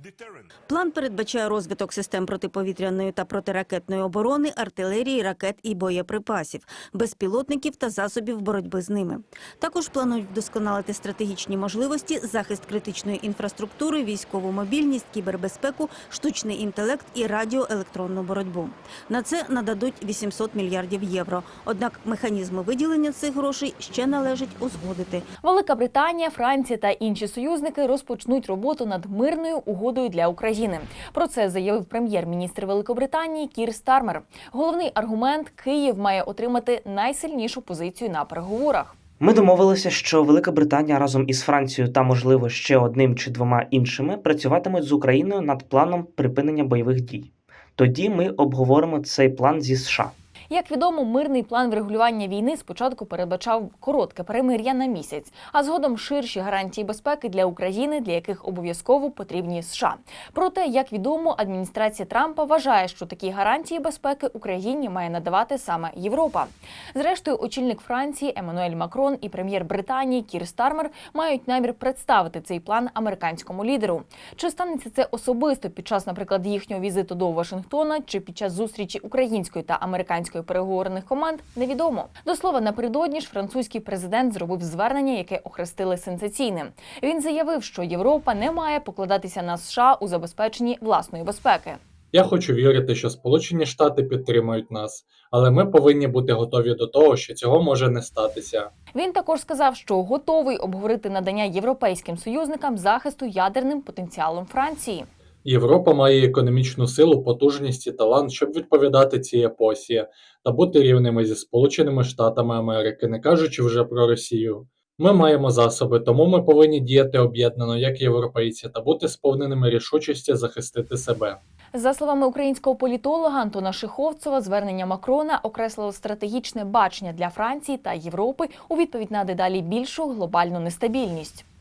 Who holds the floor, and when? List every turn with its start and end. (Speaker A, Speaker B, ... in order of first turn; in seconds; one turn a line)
Speaker A: 0.7-25.3
Speaker B: 25.4-39.0
Speaker C: 39.2-50.1
Speaker B: 50.5-91.8
Speaker D: 92.1-98.7
Speaker B: 99.0-105.1
Speaker D: 105.5-121.4
Speaker B: 121.7-131.4